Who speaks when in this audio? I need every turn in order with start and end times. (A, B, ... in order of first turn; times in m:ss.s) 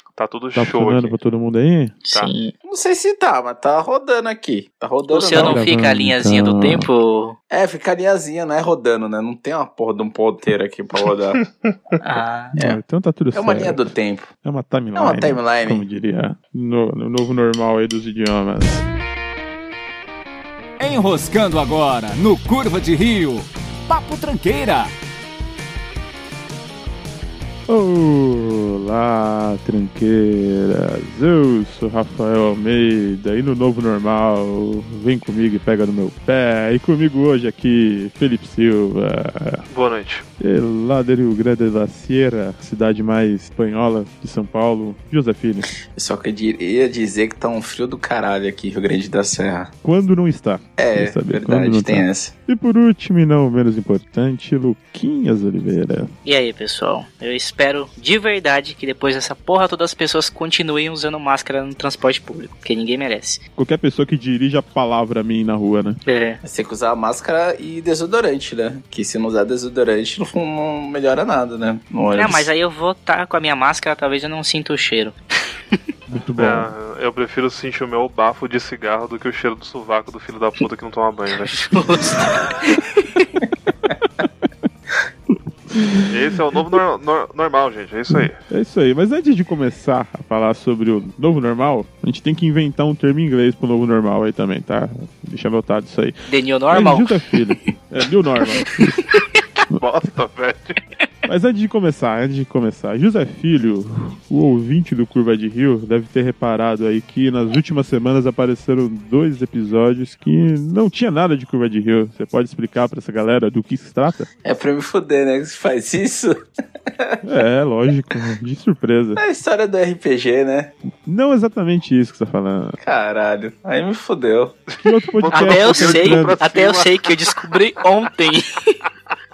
0:00.2-0:01.2 A
0:00.6-0:02.0 B
0:02.0-0:02.5 C
0:02.6-0:05.6 D
0:05.1-0:07.4 C
0:05.4-0:06.9 B
0:07.5-0:11.4 D
0:12.0-0:12.6 C
0:12.6-0:13.9 B
0:13.3-0:14.3 D
0:14.4-0:18.8 B
0:15.0-0:15.8 D
0:20.8-0:24.9 E
0:27.7-0:39.7 B
0:39.7-0:40.2 A
0:40.4-0:45.7 B
0:45.9-0:49.7 D
0:49.8-0:56.1 B
0:50.8-0:52.3 D
0:56.2-1:03.4 C
1:03.6-1:06.0 B
1:06.1-1:06.4 C
1:06.4-1:12.5 D
1:12.1-1:15.2 C
1:16.1-1:16.7 B
1:16.4-1:22.3 A
1:21.6-1:23.3 C
1:23.8-1:24.3 B
1:25.7-1:26.1 B
1:26.1-1:28.4 A
1:28.1-1:36.2 B
1:36.3-1:37.4 C
1:36.7-1:39.0 B
1:38.4-1:39.2 C
1:39.8-1:40.8 A
1:41.2-1:54.3 B
1:54.4-1:56.4 D
1:57.2-1:59.2 B
1:59.2-2:00.7 D
2:01.0-2:02.8 B
2:02.8-2:04.6 D
2:04.8-2:06.4 B
2:05.1-2:07.1 A
2:05.3-2:08.8 C